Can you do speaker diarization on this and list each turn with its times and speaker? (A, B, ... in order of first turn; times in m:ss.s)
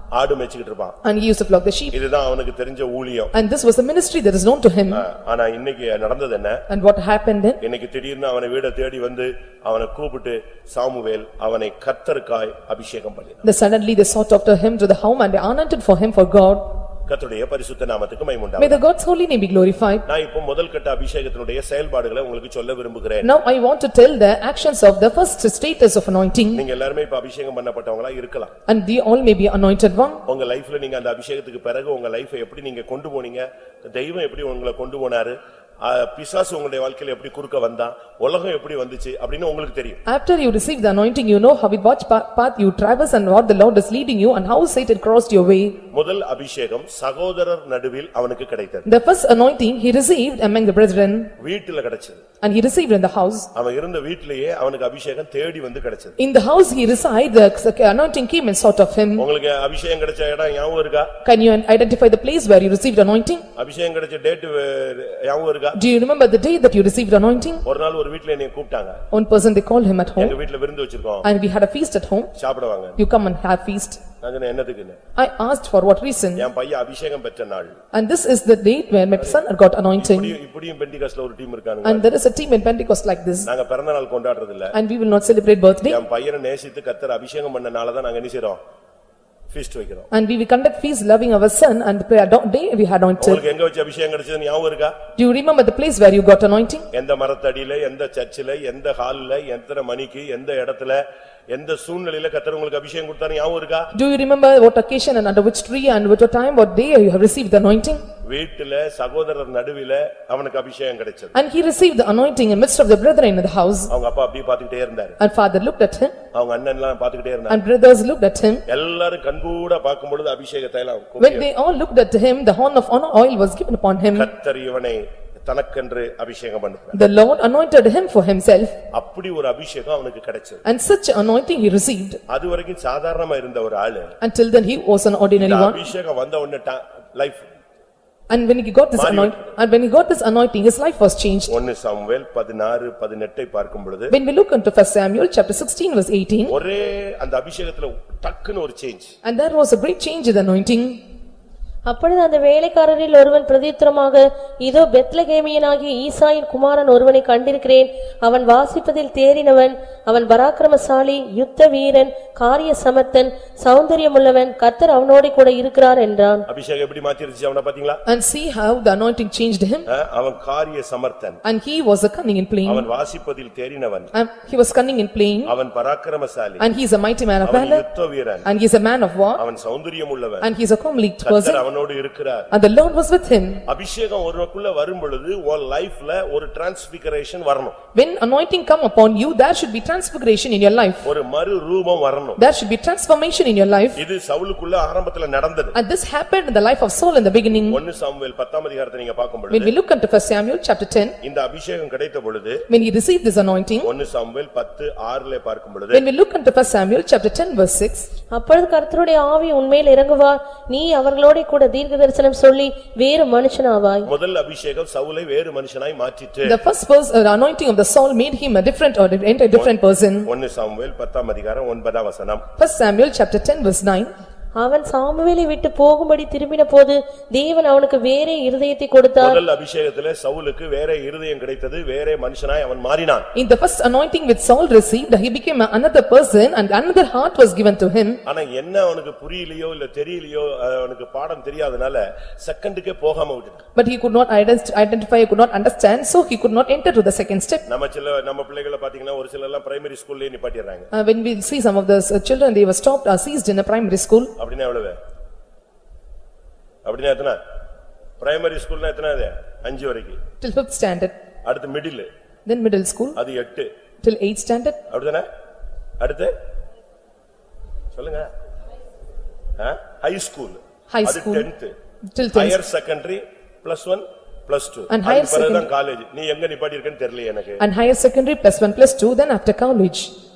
0:00.1-0:01.0 A
0:01.0-0:02.0 B
0:01.9-0:03.3 A
0:03.3-0:05.0 B
0:04.9-0:06.6 A
0:06.7-0:07.6 B
0:07.6-0:13.4 A
0:13.4-0:16.6 B
0:17.1-0:18.8 A
0:18.6-0:20.0 B
0:20.0-0:23.3 A
0:23.2-0:26.6 B
0:26.5-0:28.5 A
0:28.7-0:30.2 B
0:30.2-0:40.0 A
0:40.0-0:45.8 B
0:45.9-0:48.9 A
0:48.8-0:51.3 B
0:51.4-0:52.2 A
0:52.4-0:53.5 B
0:53.5-0:56.2 A
0:56.2-0:59.2 B
0:59.2-1:01.1 A
1:01.2-1:03.4 B
1:03.6-1:05.8 A
1:05.7-1:07.6 B
1:07.6-1:09.0 A
1:09.1-1:10.3 B
1:10.2-1:11.3 A
1:11.2-1:12.3 B
1:12.4-1:13.0 A
1:13.0-1:14.0 B
1:14.2-1:15.0 A
1:15.2-1:16.5 B
1:16.4-1:17.8 A
1:17.9-1:20.4 B
1:20.0-1:22.1 A
1:21.8-1:23.5 B
1:23.4-1:24.7 A
1:24.7-1:26.0 B
1:25.8-1:28.6 A
1:29.5-1:30.1 A
1:30.1-1:33.4 B
1:33.2-1:35.0 A
1:35.2-1:36.8 B
1:36.9-1:43.9 A
1:43.9-1:48.0 B
1:48.2-1:51.3 A
1:51.3-1:53.9 B
1:53.9-1:55.2 A
1:55.2-1:56.2 B
1:56.3-1:57.6 A
1:57.5-1:58.6 B
1:58.7-2:01.5 A
2:01.2-2:04.3 B
2:04.1-2:07.0 A
2:06.9-2:08.8 B
2:08.9-2:10.6 A
2:10.6-2:12.2 B
2:12.3-2:14.1 A
2:14.2-2:15.9 B
2:15.4-2:17.5 A
2:18.3-2:21.5 B
2:19.0-2:19.5 A
2:21.5-2:24.2 A
2:24.1-2:26.5 B
2:26.5-2:29.1 A
2:29.2-2:31.0 B
2:31.8-2:46.4 C
2:46.5-2:48.0 A
2:48.0-2:49.9 B
2:49.9-2:51.4 A
2:51.4-2:52.9 B
2:52.6-2:54.1 A
2:54.1-2:55.5 B
2:55.4-2:56.7 A
2:56.6-2:57.8 B
2:57.4-2:58.5 A
2:58.4-2:59.4 B
2:59.4-3:00.5 A
3:00.4-3:01.6 B
3:01.2-3:02.5 A
3:02.5-3:03.6 B
3:03.7-3:07.8 A
3:07.9-3:11.0 B
3:11.0-3:12.4 A
3:12.4-3:14.0 B
3:13.9-3:15.8 A
3:15.7-3:17.8 B
3:17.7-3:19.7 A
3:19.5-3:21.2 B
3:21.2-3:22.6 A
3:22.7-3:23.9 B
3:23.8-3:26.0 A
3:25.9-3:28.1 B
3:28.3-3:34.1 C
3:34.0-3:36.6 A
3:36.4-3:40.3 B
3:39.5-3:42.4 A
3:42.6-3:44.1 B
3:44.5-3:49.4 C
3:49.2-3:53.3 A
3:53.3-3:58.2 B
3:58.2-4:03.6 A
4:03.7-4:07.6 B
4:07.7-4:10.9 A
4:10.9-4:14.3 B
4:14.4-4:15.0 A
4:16.8-4:17.4 A
4:18.2-4:20.2 A
4:20.4-4:21.1 B
4:21.4-4:22.1 A
4:22.4-4:23.2 B
4:23.1-4:23.7 A
4:24.0-4:24.8 B
4:24.9-4:25.3 A
4:26.0-4:26.3 A
4:27.9-4:28.3 A
4:29.6-4:31.7 A
4:30.9-4:31.5 B
4:32.1-4:32.6 B
4:32.3-4:37.6 A
4:34.9-4:35.7 B
4:37.6-4:40.1 B